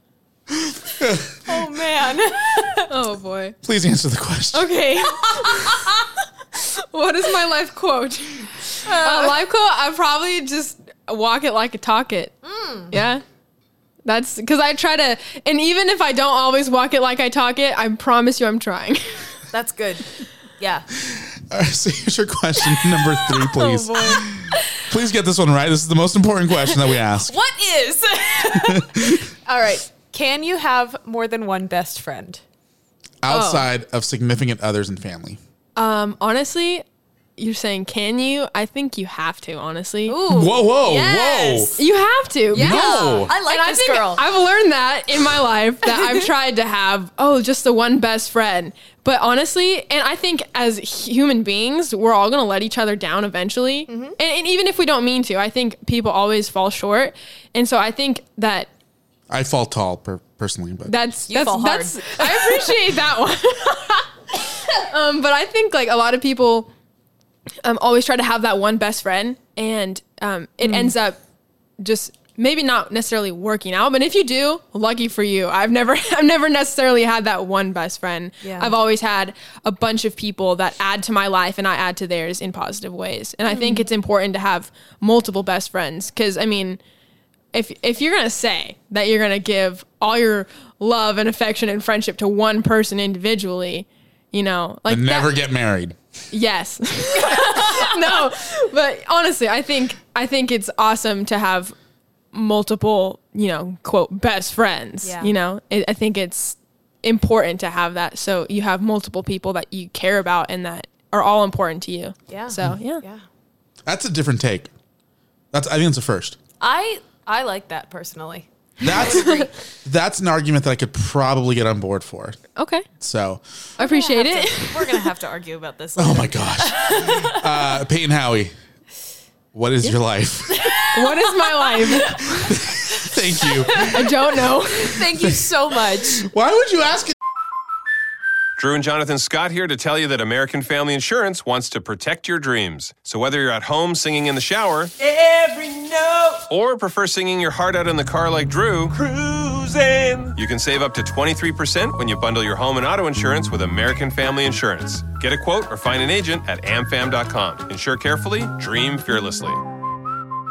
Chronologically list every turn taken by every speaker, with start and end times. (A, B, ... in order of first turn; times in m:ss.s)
0:00.6-0:01.3 A
0:01.4-0:02.9 B
0:02.9-0:03.6 C
0:03.6-0:04.7 A
0:04.5-0:05.9 C
0:05.2-0:06.0 B
0:06.5-0:12.3 C
0:08.8-0:09.4 B
0:12.4-0:12.9 B
0:12.9-0:13.2 C
0:14.0-0:19.2 C
0:19.5-0:20.8 B
0:21.0-0:27.3 A
0:23.6-0:24.8 B
0:23.6-0:24.2 C
0:26.7-0:32.4 B
0:28.5-0:29.2 A
0:33.2-0:35.4 A
0:33.3-0:33.6 C
0:35.8-0:36.8 C
0:37.4-0:40.2 C
0:40.1-0:41.8 B
0:40.3-0:41.7 A
0:41.8-0:58.7 C
0:42.5-0:43.3 A
0:42.5-0:44.2 B
0:45.9-0:46.2 B
0:53.9-0:54.1 B
0:59.3-1:01.0 A
1:00.9-1:06.7 C
1:01.3-1:02.7 B
1:07.6-1:11.2 C
1:10.6-1:10.9 B
1:11.8-1:26.8 C
1:18.4-1:18.7 B
1:23.5-1:23.8 B
1:27.5-1:35.3 C
1:34.9-1:36.0 A
1:36.3-1:41.7 C
1:42.3-1:53.0 C
1:45.0-1:45.3 B
1:52.3-1:53.2 B
1:53.8-1:54.7 A
1:55.5-1:56.4 A
1:56.6-1:58.5 B
1:58.8-2:02.4 A
1:58.8-1:59.5 C
2:02.6-2:02.8 C
2:03.0-2:03.4 A
2:03.8-2:07.4 B
2:03.8-2:05.0 C
2:06.0-2:08.5 A
2:09.5-2:10.6 A
2:10.6-2:12.4 B
2:10.9-2:12.5 C
2:12.4-2:14.1 A
2:13.6-2:14.0 B
2:13.7-2:15.0 C
2:14.7-2:16.3 B
2:15.2-2:15.5 A
2:16.1-2:17.2 A
2:18.6-2:24.9 D
2:26.5-2:29.0 D
2:30.3-2:39.6 D